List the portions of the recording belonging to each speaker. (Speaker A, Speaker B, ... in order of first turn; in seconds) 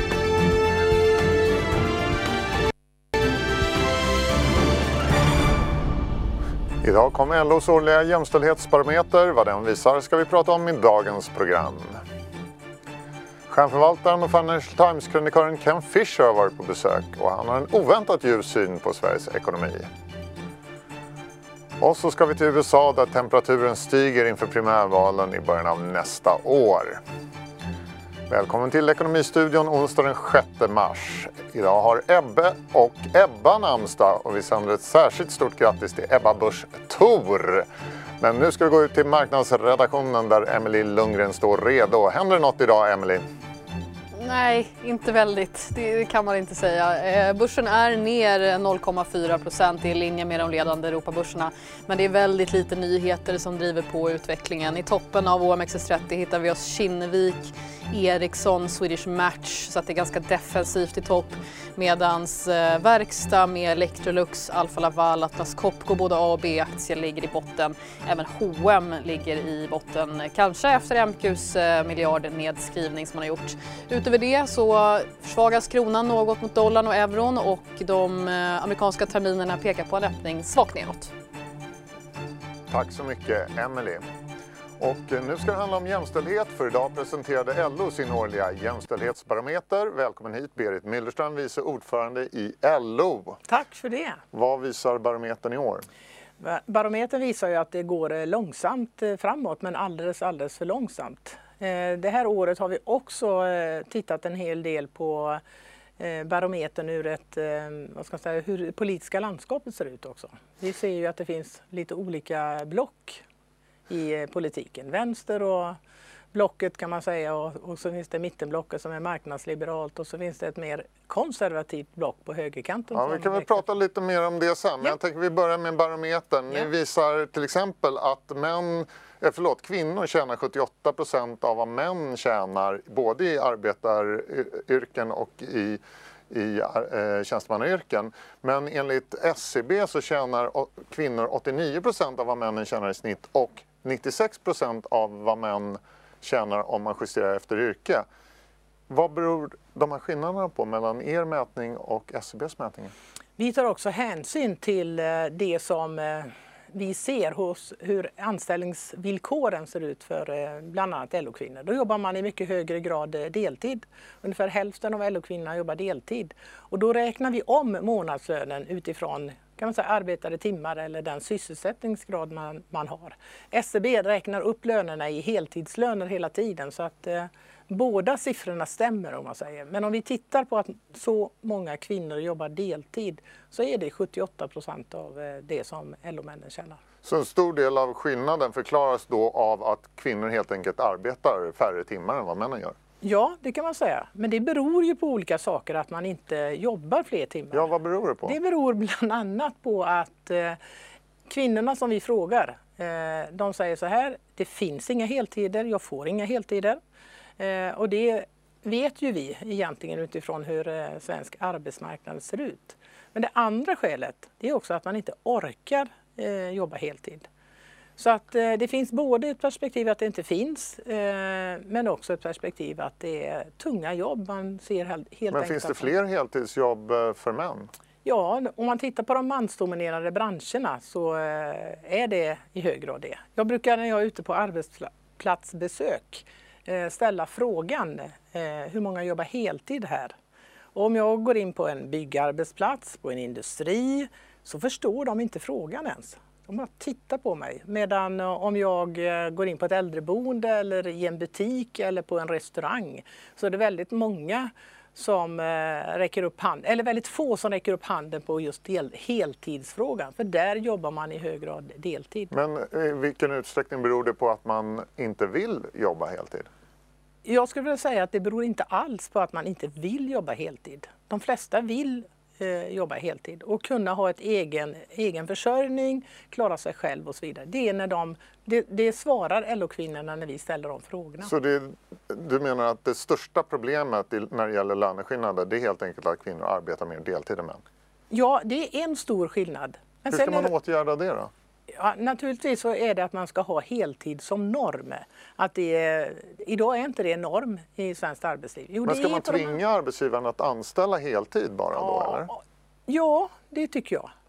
Speaker A: 6.8-12.0, 13.5-19.9, 21.8-27.0, 28.3-37.7, 38.2-43.2, 82.7-84.0, 84.8-93.4, 94.3-95.8, 122.9-148.1, 148.9-152.9, 187.0-192.8, 197.5-198.3, 225.3-227.7, 262.3-266.5, 281.2-287.6, 290.1-291.3, 298.9-302.3
Speaker B: 44.2-81.1
Speaker C: 93.5-94.2, 96.4-105.4, 106.0-113.2, 113.9-115.8, 116.3-123.6, 153.4-186.8, 193.0-197.7, 198.2-200.6, 201.3-206.8, 207.4-217.2, 218.0-225.9, 228.0-240.1, 240.8-262.3, 267.2-281.3, 288.1-290.5, 291.7-299.6, 301.7-304.1